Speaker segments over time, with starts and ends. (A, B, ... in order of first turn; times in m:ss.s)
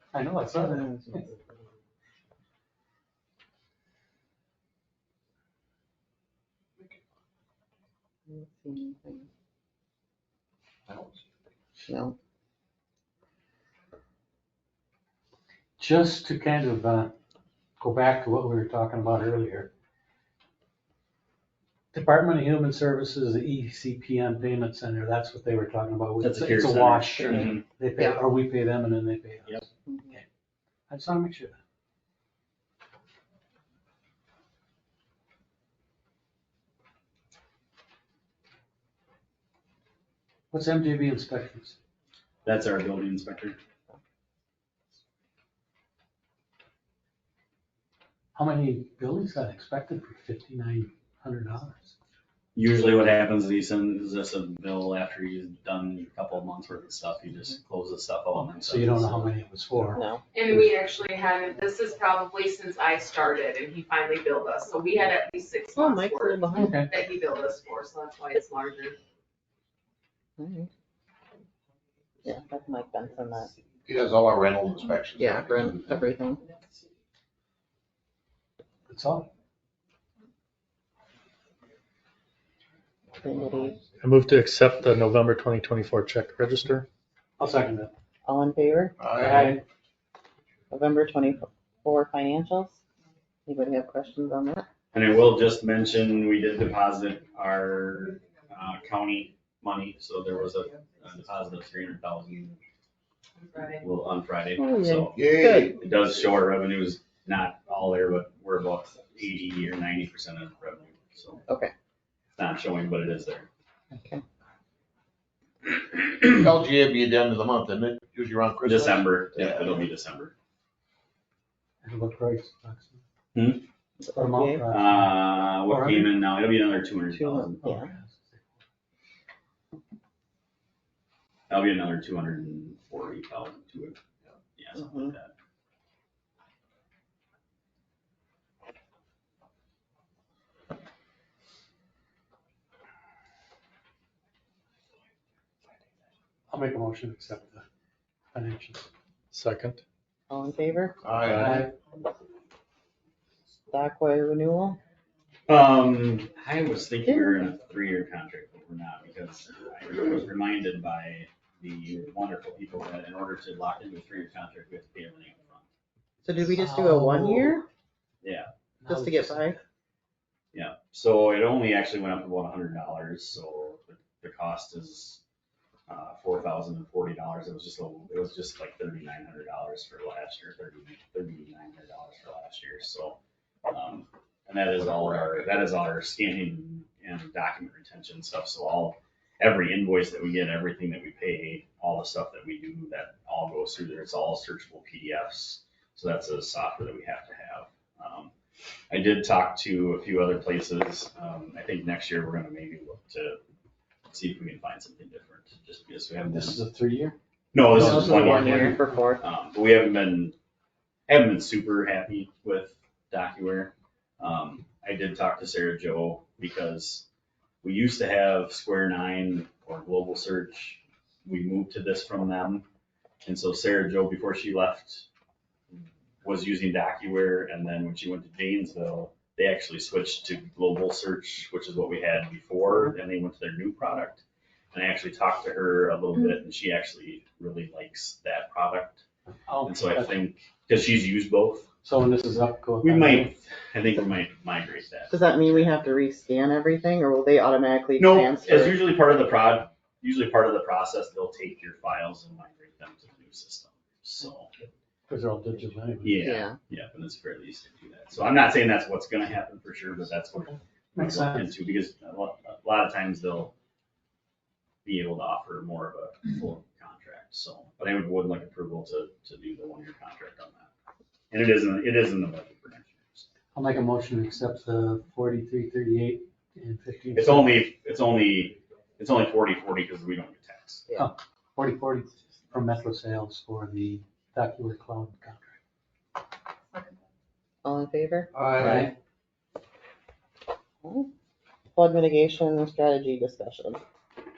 0:00.1-0:01.2 A
0:00.6-0:01.4 B
0:08.3-0:09.3 B
0:10.9-0:11.2 C
0:11.7-0:12.2 B
0:15.8-0:17.1 A
0:17.8-0:19.7 A
0:21.9-0:30.2 A
0:26.2-0:27.6 D
0:28.0-0:28.2 B
0:29.9-0:30.1 B
0:30.9-0:31.6 A
0:40.5-0:41.8 A
0:42.4-0:43.6 D
0:48.3-0:51.9 A
0:52.5-0:59.3 D
0:58.4-1:00.6 A
0:59.9-1:00.2 B
1:00.3-1:09.0 E
1:05.8-1:06.8 B
1:06.5-1:06.9 A
1:10.4-1:10.7 B
1:12.2-1:13.5 B
1:13.9-1:15.9 C
1:15.2-1:16.4 B
1:18.9-1:19.3 A
1:23.2-1:23.8 B
1:24.0-1:26.8 F
1:27.4-1:27.9 A
1:28.2-1:28.9 B
1:29.0-1:29.6 C
1:29.1-1:29.6 A
1:30.7-1:32.8 B
1:33.4-1:34.6 B
1:34.9-1:42.6 D
1:43.6-1:51.4 D
1:44.6-1:45.7 B
1:45.1-1:45.8 C
1:51.5-1:51.7 B
1:52.4-1:53.5 D
1:55.9-1:56.3 D
1:56.3-1:59.8 C
1:58.6-2:00.3 D
2:01.8-2:03.0 A
2:03.3-2:03.6 D
2:04.0-2:04.6 B
2:04.1-2:06.2 A
2:04.7-2:07.6 D
2:07.1-2:07.9 B
2:07.6-2:08.4 A
2:11.5-2:14.0 D
2:14.5-2:15.3 D
2:14.7-2:15.1 B
2:26.5-2:27.6 A
2:28.3-2:28.9 A
2:29.3-2:29.8 F
2:30.3-2:31.0 B
2:31.0-2:31.6 C
2:31.3-2:31.7 A
2:33.7-2:34.8 B
2:35.5-2:45.7 D
2:37.0-2:37.5 B
2:46.2-2:47.6 B
2:46.4-2:47.6 A
2:48.2-2:48.5 D
2:48.8-2:49.6 A
2:48.9-2:49.6 B
2:50.5-2:55.2 D
2:55.9-3:18.3 D
3:04.8-3:05.4 C
3:18.9-3:23.4 D
3:24.1-3:26.6 D
3:26.3-3:27.2 A
3:27.5-3:30.4 D
3:27.7-3:28.8 A
3:27.7-3:29.2 B
3:31.1-3:37.0 D
3:37.6-3:42.6 D
3:43.2-3:45.0 D
3:46.2-3:59.0 D
3:59.5-4:00.2 A
3:59.6-4:01.7 D
4:01.8-4:03.3 A
4:02.8-4:05.7 D
4:05.1-4:08.8 B
4:08.0-4:14.5 D
4:15.1-4:16.4 A
4:16.0-4:23.5 D
4:16.2-4:16.6 B
4:21.0-4:21.5 A
4:24.8-4:30.7 D
4:31.3-4:33.3 D
4:33.5-4:37.7 A
4:37.1-4:40.9 D
4:41.0-4:45.6 A
4:47.6-4:48.3 B
4:48.3-4:48.9 C
4:48.6-4:48.9 A
4:50.8-4:51.1 B
4:51.7-4:53.8 B